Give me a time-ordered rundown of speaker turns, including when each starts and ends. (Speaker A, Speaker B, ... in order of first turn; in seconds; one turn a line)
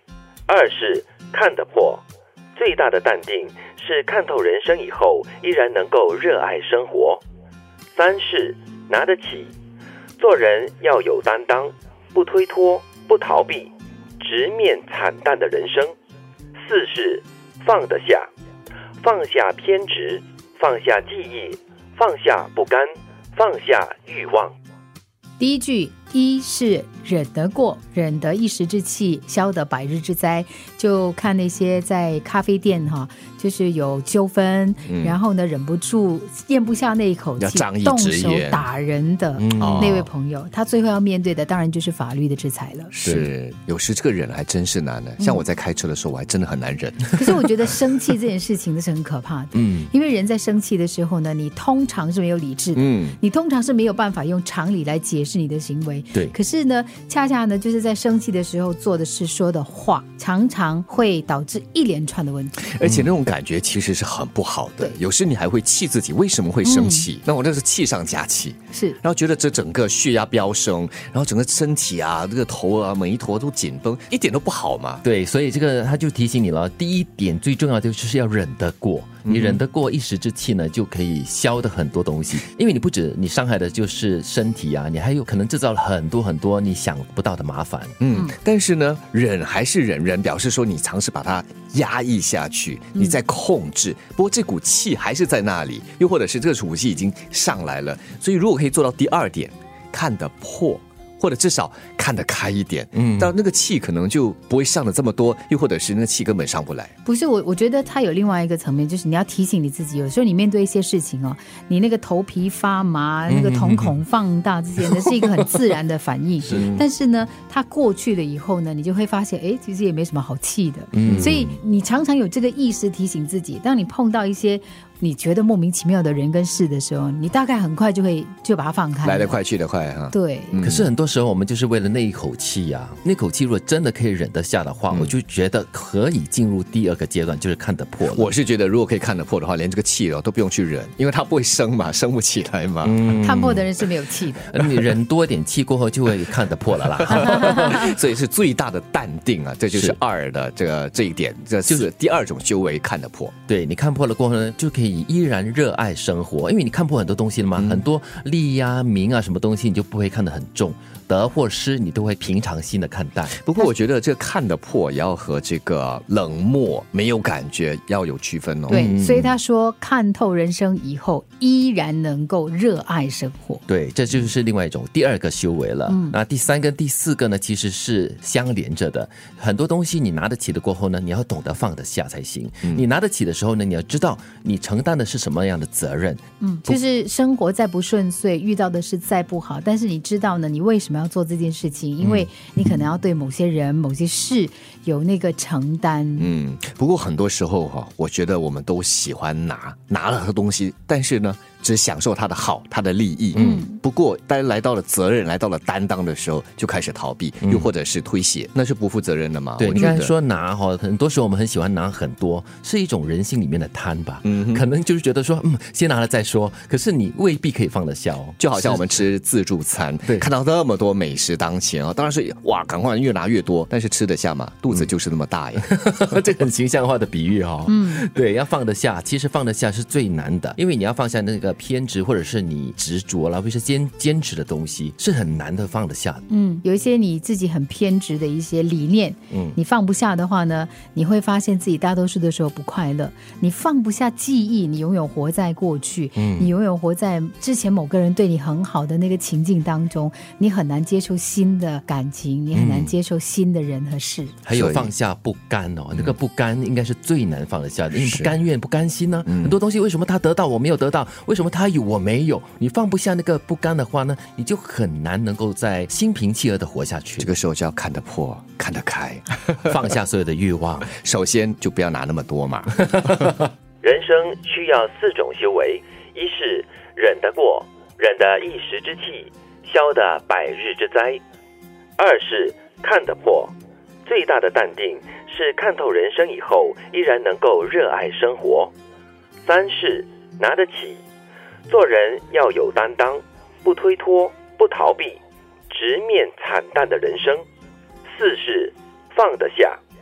Speaker A: 0.5-2.0
Speaker A: 2.5-7.2
Speaker A: 7.9-9.5
Speaker A: 10.2-15.9
Speaker A: 16.6-18.3
Speaker A: 19.0-24.5
Speaker B: 25.4-42.9
Speaker C: 34.9-35.2
Speaker C: 37.4-38.7
Speaker D: 39.4-40.1
Speaker C: 39.6-40.0
Speaker C: 42.9-47.6
Speaker D: 43.0-43.3
Speaker B: 45.2-45.4
Speaker B: 47.1-62.7
Speaker D: 49.5-49.9
Speaker C: 52.7-53.2
Speaker C: 62.6-75.0
Speaker D: 62.8-63.1
Speaker B: 66.6-67.1
Speaker B: 68.7-69.0
Speaker D: 75.0-88.0
Speaker C: 79.2-79.6
Speaker C: 88.0-106.9
Speaker D: 102.9-103.3
Speaker B: 107.0-129.4
Speaker D: 113.3-114.0
Speaker D: 114.8-115.5
Speaker C: 116.5-116.8
Speaker D: 120.9-121.6
Speaker C: 129.0-130.9
Speaker B: 130.1-130.6
Speaker D: 130.6-138.3
Speaker C: 138.1-143.0
Speaker D: 142.8-143.7
Speaker B: 143.2-144.5
Speaker D: 144.5-147.9
Speaker C: 147.0-153.3
Speaker B: 147.1-147.8
Speaker D: 149.7-150.0
Speaker D: 153.5-163.4
Speaker C: 157.6-157.8
Speaker C: 163.4-168.9
Speaker D: 168.7-169.3
Speaker B: 168.7-173.6
Speaker D: 173.7-186.8
Speaker B: 175.9-176.2
Speaker B: 186.4-196.3
Speaker C: 192.0-192.3
Speaker C: 196.2-210.1
Speaker D: 203.3-203.6
Speaker B: 203.3-203.8
Speaker D: 207.4-207.7
Speaker D: 209.6-218.9
Speaker C: 214.2-214.6
Speaker C: 218.4-225.6
Speaker D: 225.6-236.2
Speaker B: 227.7-228.0
Speaker B: 236.3-254.3
Speaker D: 239.3-239.6
Speaker D: 246.2-246.5
Speaker D: 252.5-252.9
Speaker D: 254.4-267.3
Speaker C: 254.5-254.9
Speaker C: 257.9-258.3
Speaker C: 259.3-259.5
Speaker C: 267.2-269.7
Speaker D: 269.6-270.9
Speaker C: 270.9-273.4
Speaker A: 273.8-281.2
Speaker A: 282.0-283.5
Speaker A: 284.1-288.7
Speaker A: 289.4-291.0
Speaker A: 291.7-297.4
Speaker A: 298.0-299.8